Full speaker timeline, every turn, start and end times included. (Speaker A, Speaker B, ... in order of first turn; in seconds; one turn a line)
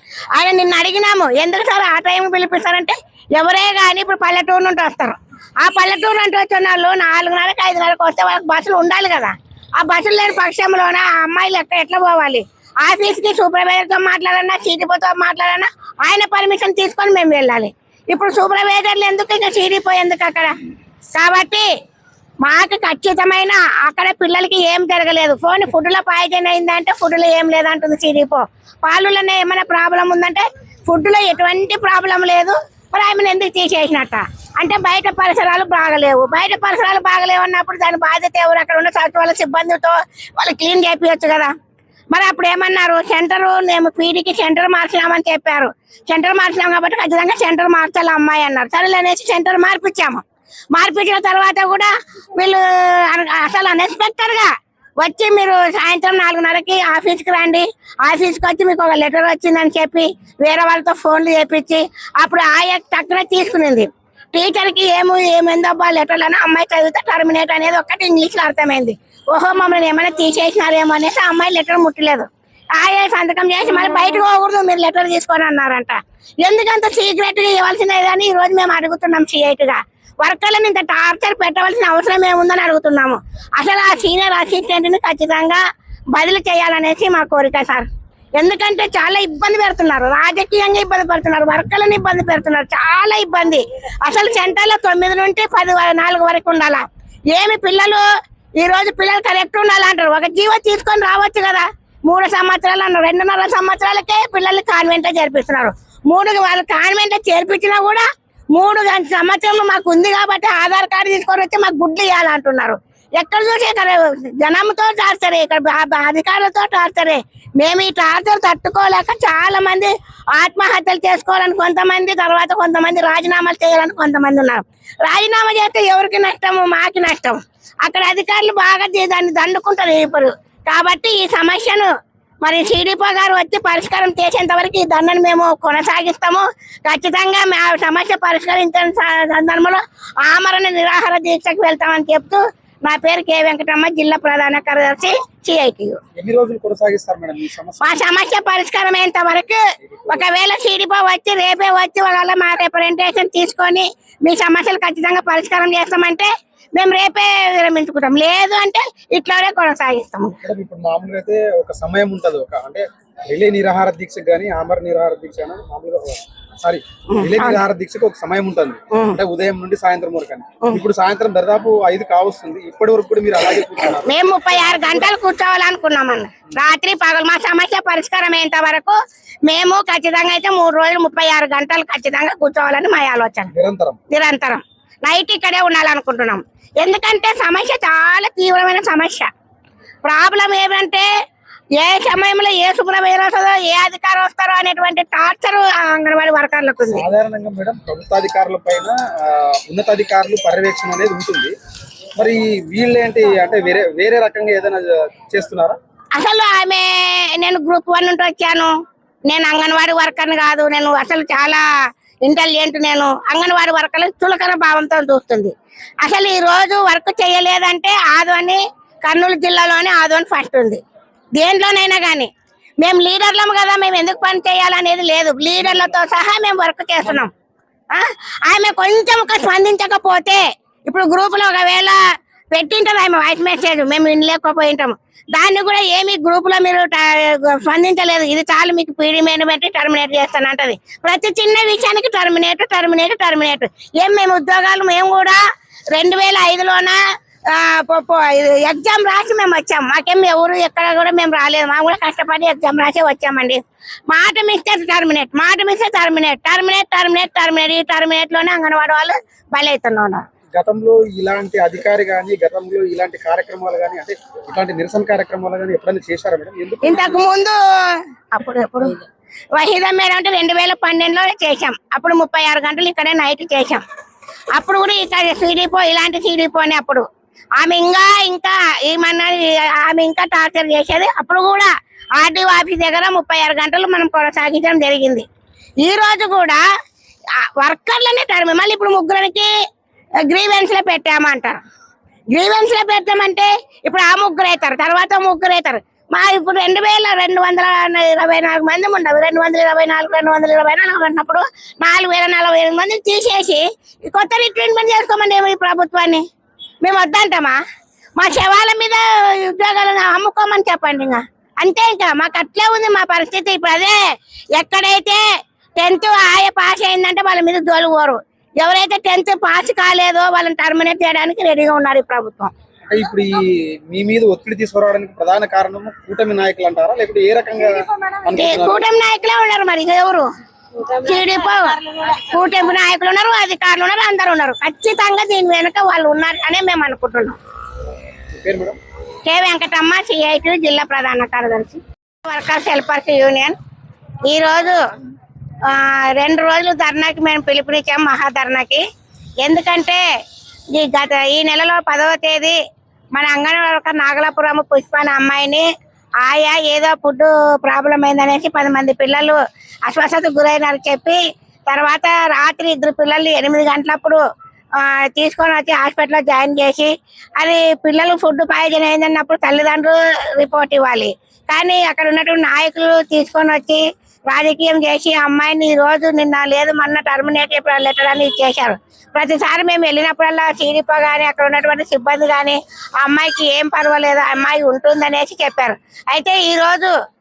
Speaker A: 0.3-20.5
Speaker A: 21.1-21.7
Speaker A: 22.4-41.5
Speaker A: 42.1-85.6
Speaker A: 86.1-98.0
Speaker A: 98.6-131.9
Speaker A: 132.4-146.0
Speaker B: 146.2-148.0
Speaker A: 147.8-160.4
Speaker B: 149.9-150.3
Speaker B: 160.4-175.1
Speaker A: 167.1-167.6
Speaker A: 168.9-169.2
Speaker A: 174.0-183.5
Speaker B: 183.5-184.0
Speaker A: 184.1-189.3
Speaker A: 190.0-191.1
Speaker A: 191.8-197.0
Speaker B: 196.8-201.5
Speaker B: 202.2-205.8
Speaker A: 206.2-208.7
Speaker A: 209.3-211.6
Speaker A: 212.2-220.8
Speaker A: 221.4-227.3
Speaker A: 227.9-232.0
Speaker A: 232.5-245.4
Speaker A: 245.9-247.0
Speaker A: 247.5-260.2
Speaker B: 260.5-267.2
Speaker A: 266.8-269.0
Speaker A: 269.5-273.8
Speaker A: 274.6-277.1
Speaker A: 277.6-285.2
Speaker A: 285.8-286.6
Speaker A: 287.6-289.5
Speaker A: 290.3-291.6
Speaker A: 292.3-306.2
Speaker A: 306.8-307.6
Speaker A: 308.2-314.0
Speaker A: 314.6-315.2
Speaker A: 315.8-322.5
Speaker B: 322.9-328.8
Speaker A: 328.3-330.3
Speaker A: 330.9-337.4
Speaker B: 338.4-338.8
Speaker A: 339.2-343.6
Speaker A: 344.2-344.8
Speaker A: 345.6-348.8
Speaker A: 349.4-350.0
Speaker A: 350.7-352.6
Speaker A: 353.1-355.7
Speaker A: 356.2-364.2
Speaker A: 364.8-386.9